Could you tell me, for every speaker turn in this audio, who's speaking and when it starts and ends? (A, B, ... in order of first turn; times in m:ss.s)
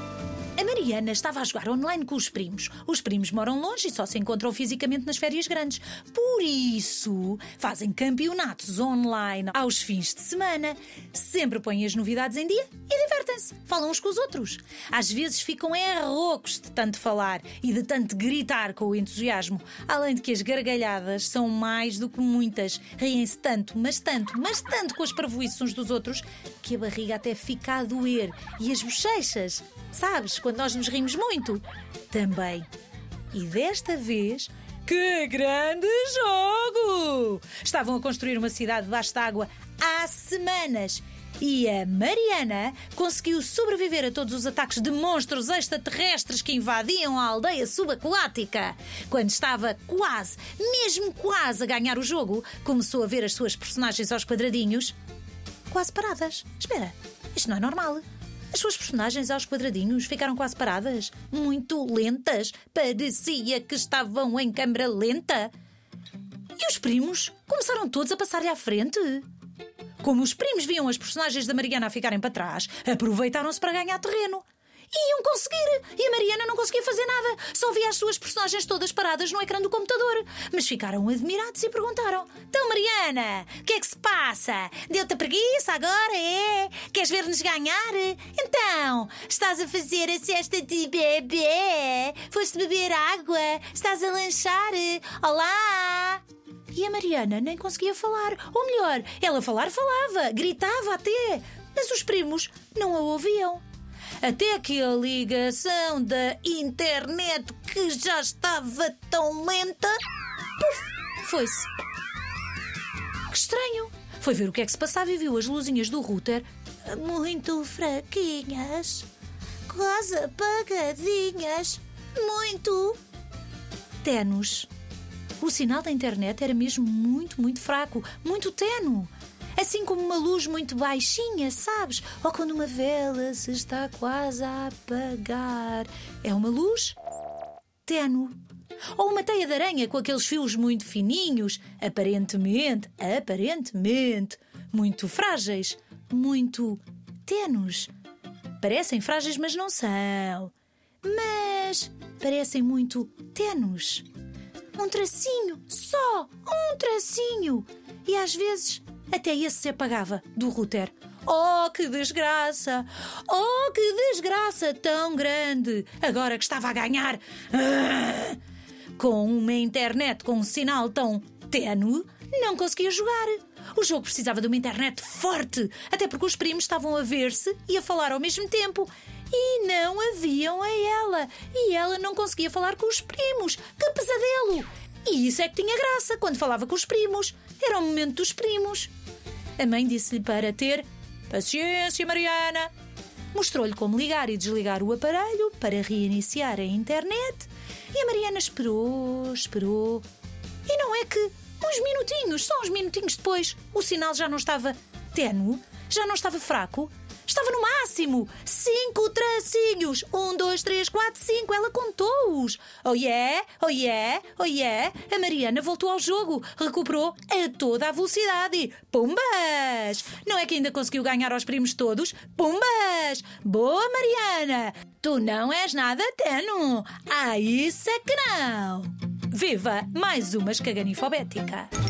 0:00.6-0:32.7 A
0:33.3-0:55.0 A
0:55.7-1:05.5 A
1:06.6-1:09.3 A
1:10.0-1:43.6 A
1:44.2-1:50.0 A
1:50.6-1:51.7 A
1:53.3-1:59.1 A
1:59.7-2:03.0 A
2:04.0-2:04.7 A
2:05.4-2:17.0 A
2:17.8-2:18.4 A
2:19.0-2:27.9 A
2:28.6-2:34.0 A
2:34.8-2:48.4 A
2:49.0-3:08.9 A
3:09.6-3:12.7 A
3:13.3-3:20.0 A
3:20.7-3:51.7 A